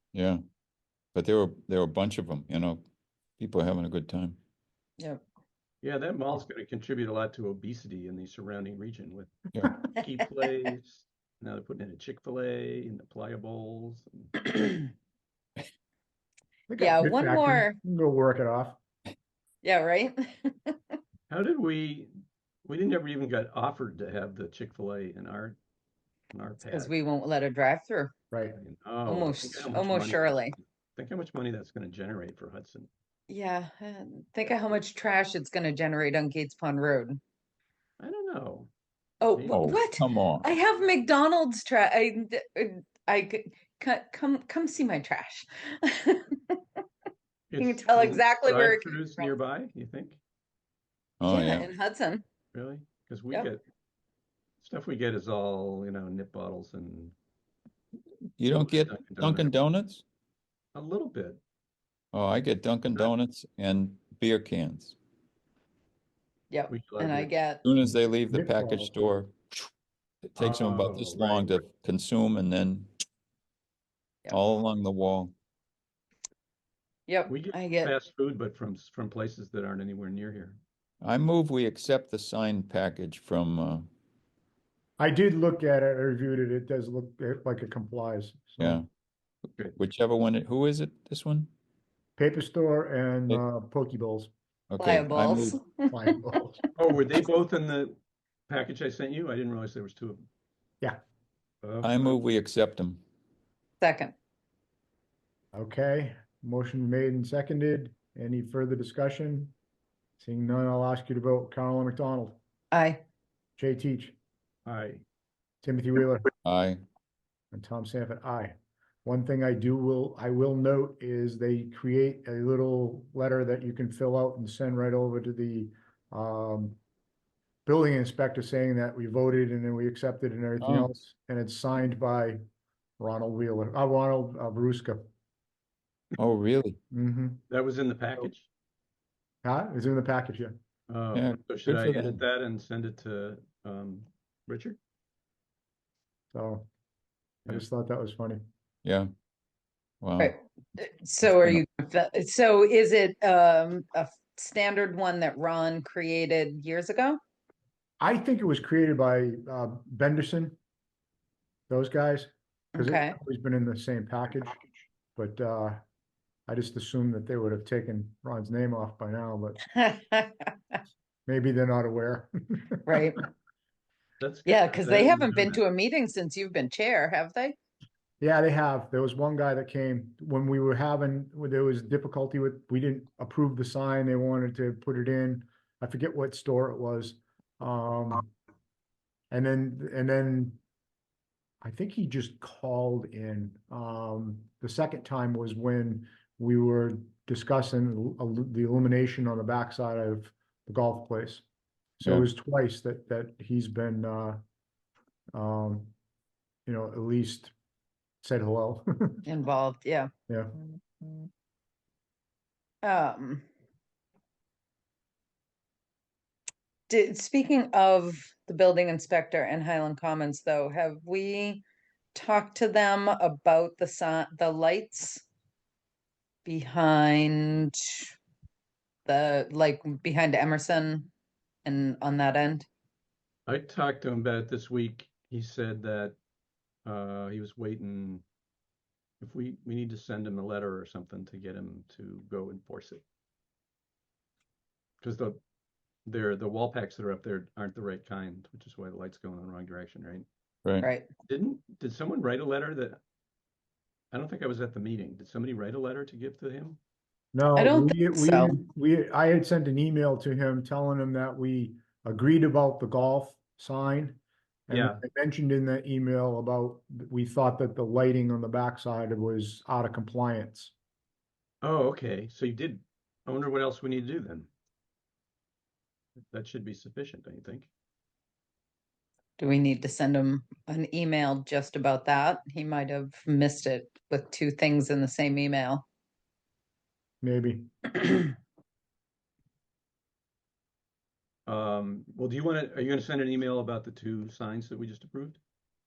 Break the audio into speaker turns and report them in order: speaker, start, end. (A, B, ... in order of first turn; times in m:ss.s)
0:00.1-0:00.4 A
0:01.2-0:02.8 A
0:03.4-0:04.4 A
0:05.8-0:14.5 B
0:16.7-0:18.8 C
0:16.8-0:17.8 D
0:19.6-0:21.0 D
0:21.3-0:22.1 B
0:22.6-0:25.6 B
0:26.3-0:26.9 B
0:26.7-0:28.1 D
0:28.3-0:28.6 C
0:28.6-0:32.9 B
0:29.1-0:30.6 D
0:33.3-0:37.2 D
0:34.4-0:34.8 B
0:38.0-0:38.7 B
0:39.2-0:46.6 D
0:39.3-0:39.7 B
0:39.5-0:40.5 A
0:47.5-0:50.2 B
0:47.6-0:49.3 D
0:51.2-0:51.7 A
0:51.3-0:52.2 D
0:52.5-0:53.6 B
0:54.6-0:57.2 B
0:58.4-1:00.0 A
0:58.5-0:59.5 B
1:00.8-1:01.4 B
1:02.1-1:05.0 A
1:06.5-1:07.6 D
1:06.7-1:07.3 B
1:07.6-1:09.7 A
1:08.3-1:09.0 C
1:10.2-1:12.9 A
1:10.4-1:11.6 B
1:14.3-1:15.3 A
1:17.1-1:17.9 D
1:17.3-1:20.6 B
1:21.0-1:23.9 A
1:25.0-1:28.8 C
1:28.6-1:28.9 A
1:29.6-1:31.5 A
1:32.2-1:34.3 C
1:34.7-1:35.6 A
1:34.8-1:36.2 D
1:35.9-1:36.6 C
1:36.8-1:40.2 B
1:41.6-1:42.2 B
1:41.8-1:43.0 A
1:43.8-1:44.1 D
1:45.5-1:49.6 C
1:50.2-1:52.4 C
1:52.7-1:53.0 D
1:53.6-1:54.2 C
1:54.7-1:55.0 B
1:55.6-1:56.3 C
1:56.4-1:56.8 A
1:57.5-1:58.5 C
1:59.0-2:06.8 C
2:07.7-2:12.4 C
2:10.6-2:10.9 A
2:13.0-2:15.1 C
2:16.2-2:16.8 A
2:16.9-2:17.4 C
2:17.5-2:18.5 B
2:19.4-2:20.6 C
2:20.9-2:24.8 B
2:21.1-2:22.2 A
2:26.3-2:26.7 C
2:27.5-2:28.4 C
2:30.0-2:30.3 A
2:30.2-2:37.2 D
2:31.2-2:31.6 A
2:38.0-2:40.6 C
2:41.7-2:45.8 C
2:42.8-2:43.2 D
2:46.5-2:49.6 C
2:49.7-2:50.8 D
2:51.3-2:53.1 C
2:52.8-2:53.3 D
2:54.2-2:55.6 B
2:54.5-2:57.6 D
2:58.2-3:08.3 C
3:09.3-3:10.6 C
3:11.6-3:21.4 C
3:22.0-3:24.4 C
3:25.3-3:25.9 C
3:26.7-3:27.5 C
3:28.2-3:29.2 C
3:29.2-3:30.1 D
3:32.8-3:33.5 D
3:36.9-3:41.6 D
3:42.1-3:45.2 D
3:46.4-3:48.1 D
3:49.1-3:51.1 D
3:51.6-3:52.7 D
3:53.5-3:56.2 B
3:56.8-3:58.2 B
3:59.2-4:03.0 B
4:05.0-4:05.4 B
4:06.1-4:10.2 B
4:10.8-4:11.1 D
4:11.3-4:13.0 B
4:14.1-4:16.8 B
4:17.3-4:30.7 C
4:17.6-4:18.6 D
4:24.7-4:25.0 B
4:31.6-4:34.5 B
4:36.3-4:37.7 B
4:39.4-4:45.8 D
4:47.2-4:48.0 C
4:51.5-4:55.4 B